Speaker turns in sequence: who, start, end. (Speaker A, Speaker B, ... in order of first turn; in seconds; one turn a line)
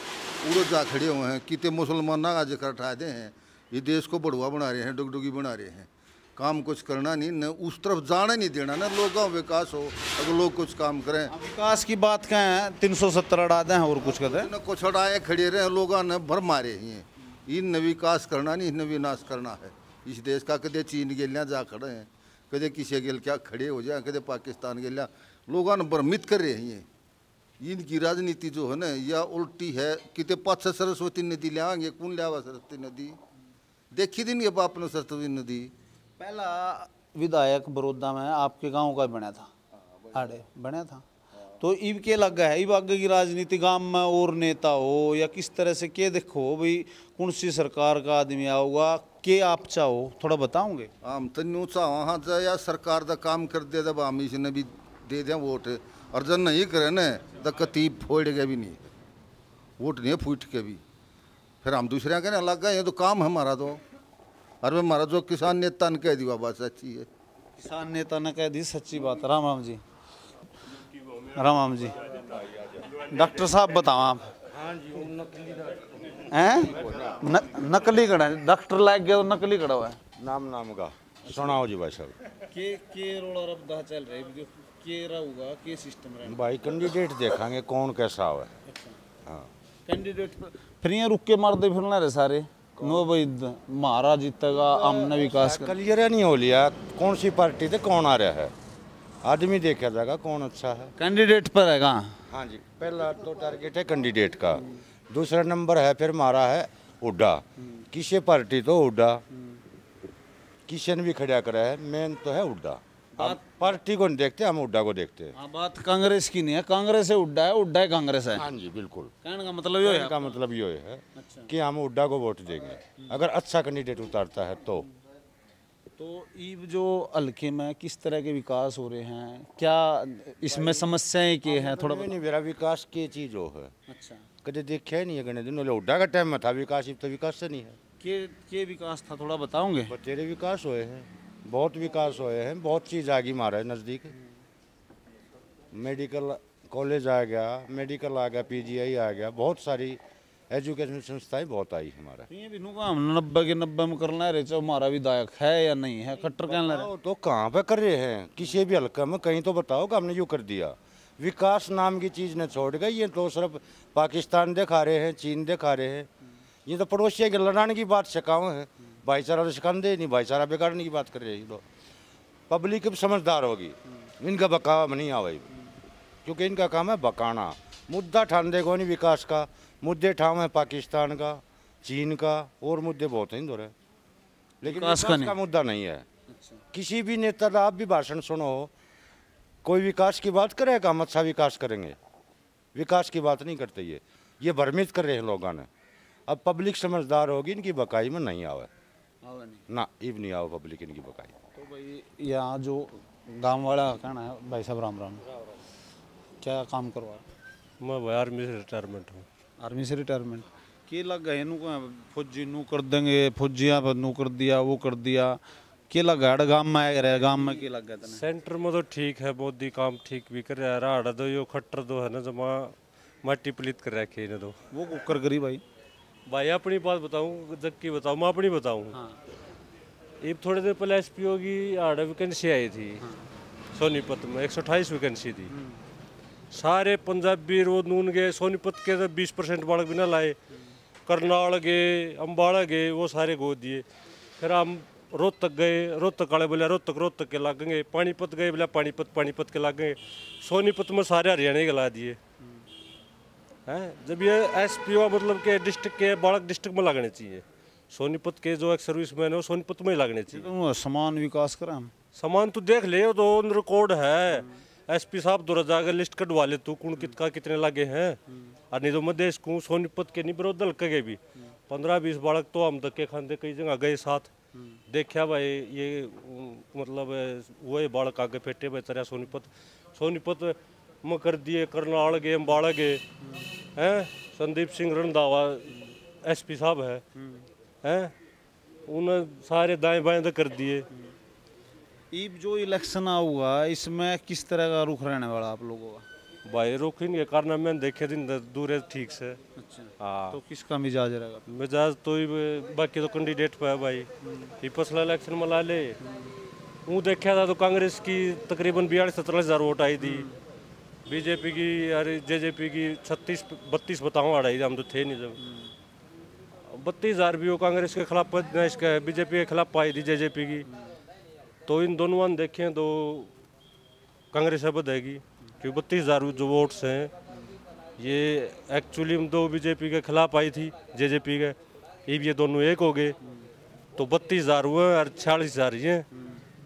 Speaker A: 0.4-11.3
Speaker B: 11.3-14.5
Speaker A: 14.0-26.9
Speaker A: 27.6-33.2
Speaker A: 33.9-35.7
Speaker B: 36.2-39.5
Speaker B: 40.1-41.0
Speaker B: 41.6-50.9
Speaker A: 51.0-58.9
Speaker A: 59.8-60.8
Speaker A: 61.6-63.8
Speaker A: 64.6-67.1
Speaker B: 67.6-69.8
Speaker B: 71.2-72.0
Speaker B: 73.1-74.3
Speaker C: 74.5-75.8
Speaker B: 76.3-80.0
Speaker C: 76.8-77.1
Speaker C: 80.2-82.1
Speaker B: 81.2-81.6
Speaker B: 82.5-86.4
Speaker C: 86.2-88.5
Speaker B: 88.7-89.0
Speaker B: 89.8-95.7
Speaker C: 92.8-93.1
Speaker C: 94.7-98.5
Speaker C: 99.2-100.9
Speaker B: 101.0-102.1
Speaker C: 102.3-109.2
Speaker B: 109.3-109.6
Speaker C: 110.7-115.3
Speaker B: 113.2-113.8
Speaker B: 115.3-118.4
Speaker C: 118.3-119.1
Speaker B: 119.2-120.4
Speaker C: 119.8-124.9
Speaker B: 121.2-121.5
Speaker B: 122.8-123.2
Speaker B: 126.0-132.1
Speaker C: 130.4-130.9
Speaker C: 131.4-133.7
Speaker B: 133.9-134.3
Speaker C: 134.4-137.8
Speaker B: 138.0-139.9
Speaker C: 139.9-144.1
Speaker C: 145.7-150.0
Speaker C: 150.5-152.3
Speaker B: 152.3-156.9
Speaker C: 156.2-166.1
Speaker C: 166.7-171.6
Speaker C: 172.5-175.5
Speaker C: 176.2-183.7
Speaker C: 184.6-186.1
Speaker B: 184.6-185.3
Speaker B: 186.3-186.6
Speaker C: 186.7-188.7
Speaker C: 189.6-192.0
Speaker C: 192.7-195.7
Speaker C: 196.3-198.7
Speaker B: 199.2-199.6
Speaker C: 199.7-201.3
Speaker B: 201.5-205.2
Speaker B: 206.4-207.3
Speaker D: 207.8-209.2
Speaker B: 209.6-218.2
Speaker D: 218.0-224.6
Speaker B: 224.7-225.6
Speaker D: 226.3-229.0
Speaker D: 230.2-233.0
Speaker B: 233.0-233.3
Speaker D: 233.7-235.5
Speaker B: 235.5-235.8
Speaker D: 236.5-240.3
Speaker D: 241.1-243.8
Speaker D: 244.4-252.2
Speaker D: 253.7-260.5
Speaker B: 260.3-261.9
Speaker D: 262.1-268.2
Speaker D: 268.7-274.3
Speaker D: 274.9-283.0
Speaker D: 283.8-287.0
Speaker B: 287.2-287.4
Speaker D: 287.8-288.1
Speaker D: 288.9-290.9
Speaker B: 292.1-296.0
Speaker D: 296.4-299.4
Speaker B: 299.6-301.4
Speaker D: 300.0-300.4
Speaker D: 301.5-304.1
Speaker D: 304.6-305.9
Speaker B: 306.0-306.3
Speaker D: 306.9-310.2
Speaker B: 310.0-310.4
Speaker D: 311.1-315.4
Speaker D: 316.7-320.7
Speaker D: 321.6-323.3
Speaker D: 324.3-327.1
Speaker D: 328.0-333.1
Speaker D: 333.9-336.1
Speaker B: 336.1-336.4